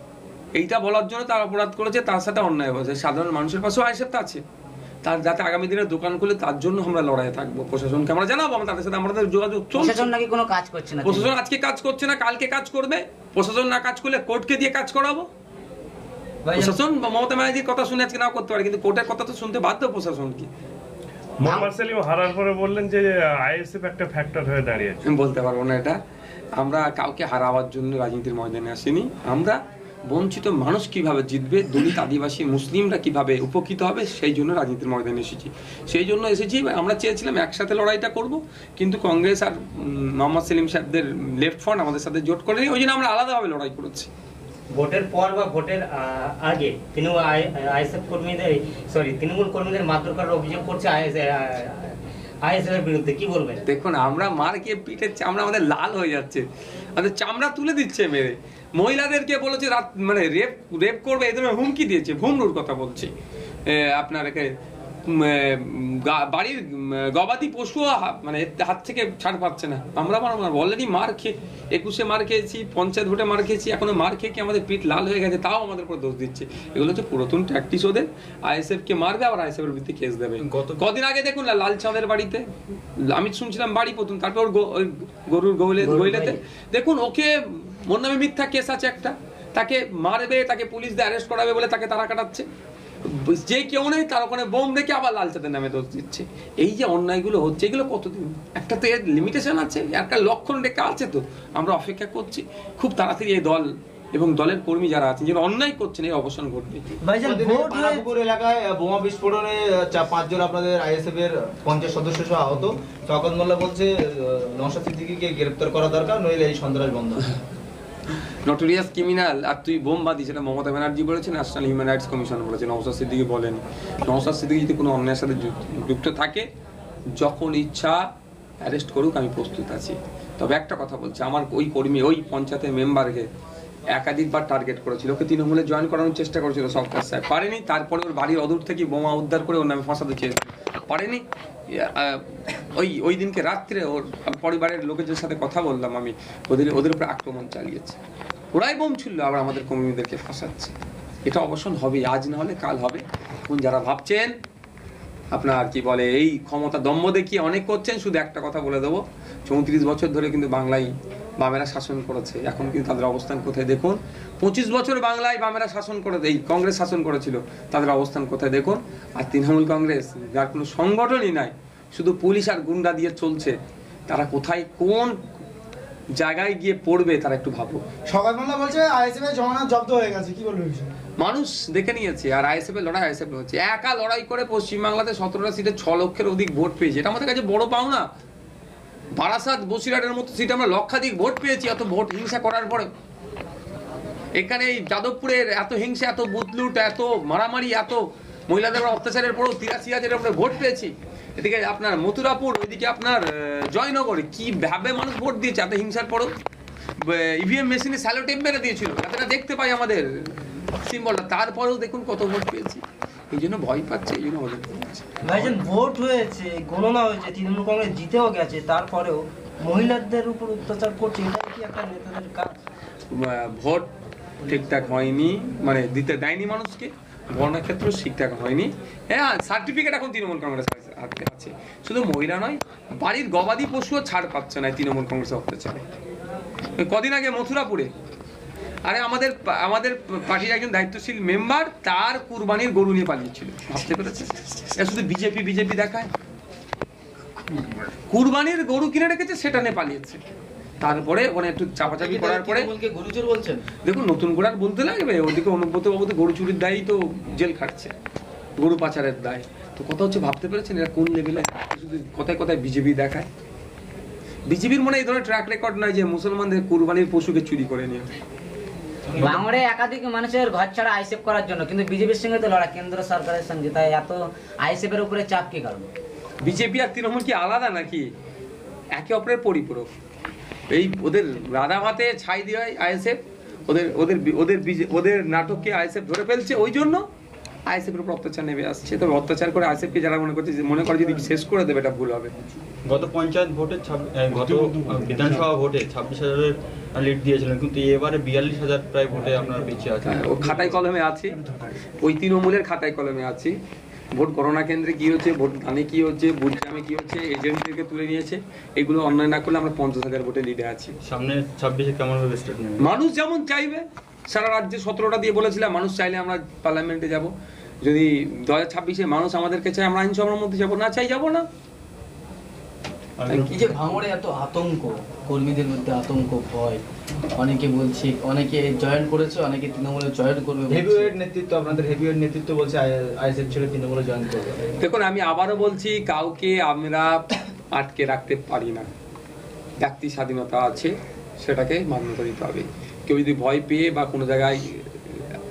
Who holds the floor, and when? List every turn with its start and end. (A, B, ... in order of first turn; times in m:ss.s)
0:00.5-0:04.4 A
0:05.0-0:10.1 A
0:09.7-0:11.3 B
0:11.0-0:15.3 A
0:16.5-0:16.8 C
0:16.5-0:20.5 A
0:21.4-0:25.0 D
0:21.4-0:21.7 B
0:25.0-0:26.0 A
0:26.6-0:44.1 A
0:44.7-0:53.6 E
0:53.6-0:56.4 A
0:57.0-1:03.1 A
1:03.7-1:04.5 A
1:05.0-1:22.4 A
1:20.4-1:20.8 F
1:23.0-1:32.4 A
1:25.8-1:26.4 B
1:33.0-1:46.8 A
1:47.0-1:48.0 C
1:47.2-1:57.2 G
1:58.4-2:06.5 A
2:07.2-2:08.0 A
2:08.6-2:13.3 A
2:13.9-2:28.0 A
2:28.5-2:30.7 A
2:31.3-2:34.4 A
2:35.3-2:53.6 A
2:54.1-2:55.2 A
2:56.2-2:57.8 A
2:58.1-3:00.9 H
3:01.2-3:08.0 A
3:09.2-3:12.9 A
3:14.3-3:26.3 A
3:27.0-3:35.6 A
3:35.2-3:42.6 C
3:43.1-3:43.9 A
3:44.4-3:55.8 A
3:56.8-3:57.9 A
3:58.8-4:06.1 A
4:08.1-4:10.2 A
4:10.8-4:12.7 A
4:11.8-4:13.6 I
4:13.8-4:17.9 A
4:18.6-4:23.3 A
4:24.4-4:28.1 A
4:29.2-4:35.9 B
4:29.2-4:29.5 F
4:36.4-4:38.1 A
4:38.9-4:39.9 A
4:40.7-4:47.0 A
4:47.7-4:52.3 A
4:52.8-5:00.8 F
5:00.0-5:01.4 A
5:02.0-5:03.6 A
5:04.1-5:10.9 A
5:11.0-5:12.9 F
5:12.8-5:17.3 A
5:17.8-5:21.4 A
5:23.2-5:24.0 F
5:23.3-5:23.6 A
5:23.4-5:26.8 I
5:27.3-5:31.1 I
5:30.7-5:34.7 G
5:34.8-5:38.9 A
5:39.8-5:45.4 A